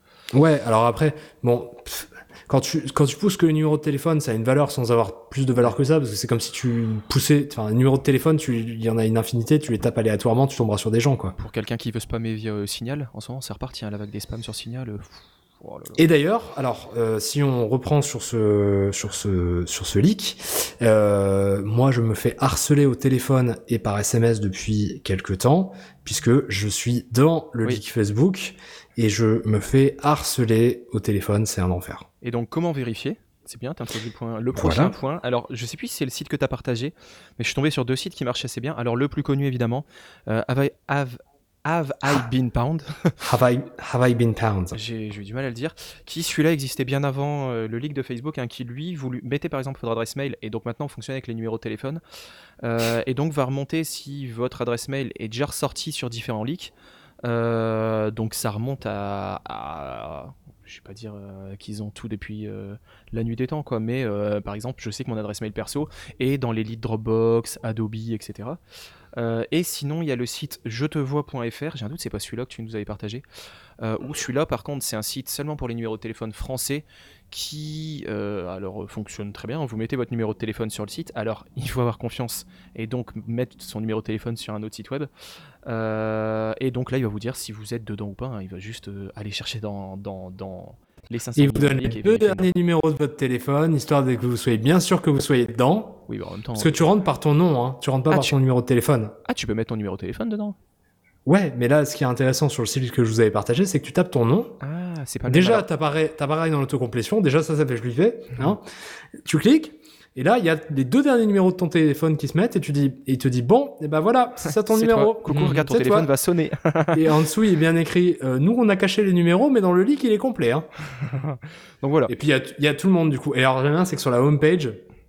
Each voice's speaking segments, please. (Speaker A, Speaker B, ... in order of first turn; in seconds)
Speaker A: 0.3-11.3, 15.9-32.0, 34.5-34.9, 43.2-44.8, 91.3-96.0, 96.5-99.2, 101.2-104.6, 105.2-108.6, 109.2-116.1, 116.9-120.7, 122.1-124.8
Speaker B: 11.4-16.0, 32.2-43.1, 44.7-52.0, 52.6-56.7, 57.2-68.6, 69.2-73.2, 73.8-85.1, 85.6-92.5, 96.1-96.8, 98.1-98.4, 99.3-100.5, 104.6-105.7, 114.7-117.0, 121.8-122.1